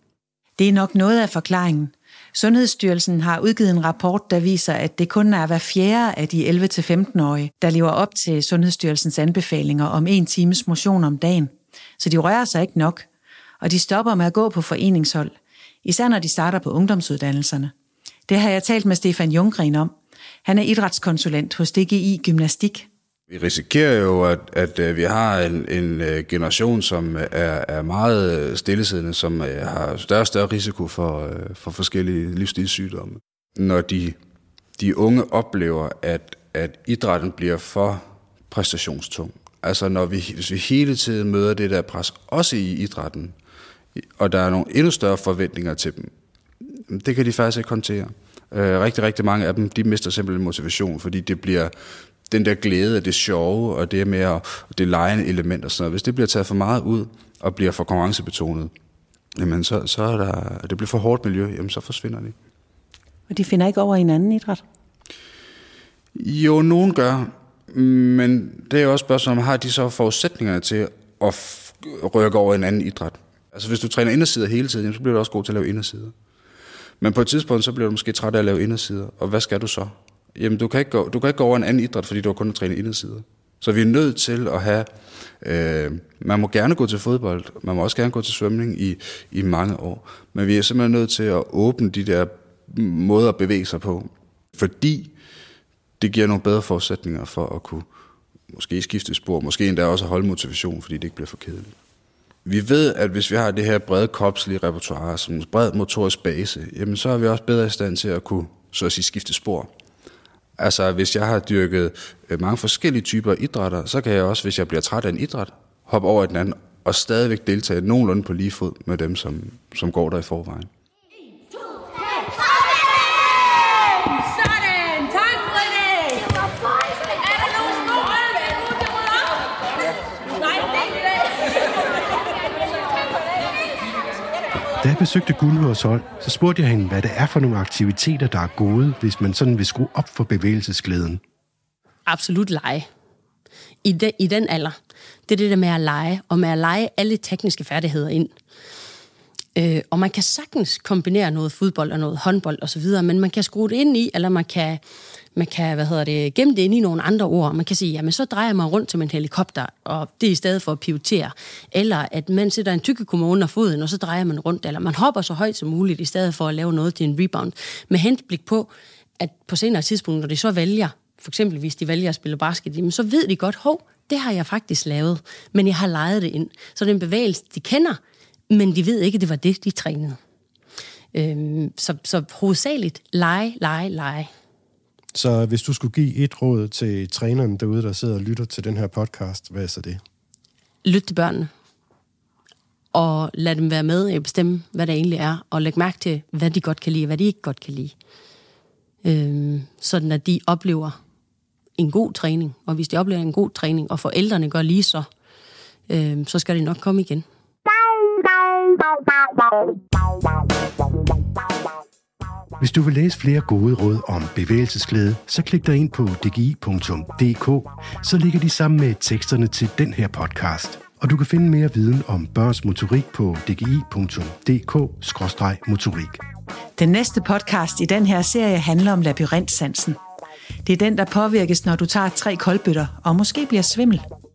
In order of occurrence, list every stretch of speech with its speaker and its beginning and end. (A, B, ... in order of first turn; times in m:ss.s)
0:00.6-0:13.1 A
0:13.6-0:17.7 A
0:18.3-0:19.9 A
0:20.4-0:22.9 A
0:23.3-0:34.2 B
0:34.8-0:43.3 B
0:44.2-0:46.1 B
0:46.9-0:51.7 B
0:52.3-0:58.7 B
0:59.4-1:02.3 B
1:03.3-1:04.6 A
1:06.2-1:16.1 B
1:17.0-1:24.9 B
1:25.4-1:35.1 B
1:36.0-1:37.8 B
1:38.5-1:41.7 B
1:42.4-1:49.7 B
1:50.6-2:00.7 B
2:14.8-2:21.2 C
2:22.0-2:22.9 D
2:23.8-2:24.8 D
2:25.3-2:28.3 D
2:29.6-2:34.8 D
2:35.3-2:58.0 D
2:58.5-3:00.2 D
3:01.1-3:04.3 D
3:05.2-3:10.0 E
3:05.5-3:09.8 C
3:10.8-3:11.5 D
3:12.9-3:17.9 D
3:19.0-3:21.0 D
3:21.8-3:25.1 D
3:25.9-3:27.2 D
3:32.6-3:46.2 C
3:46.8-3:50.0 A
3:50.6-3:54.0 A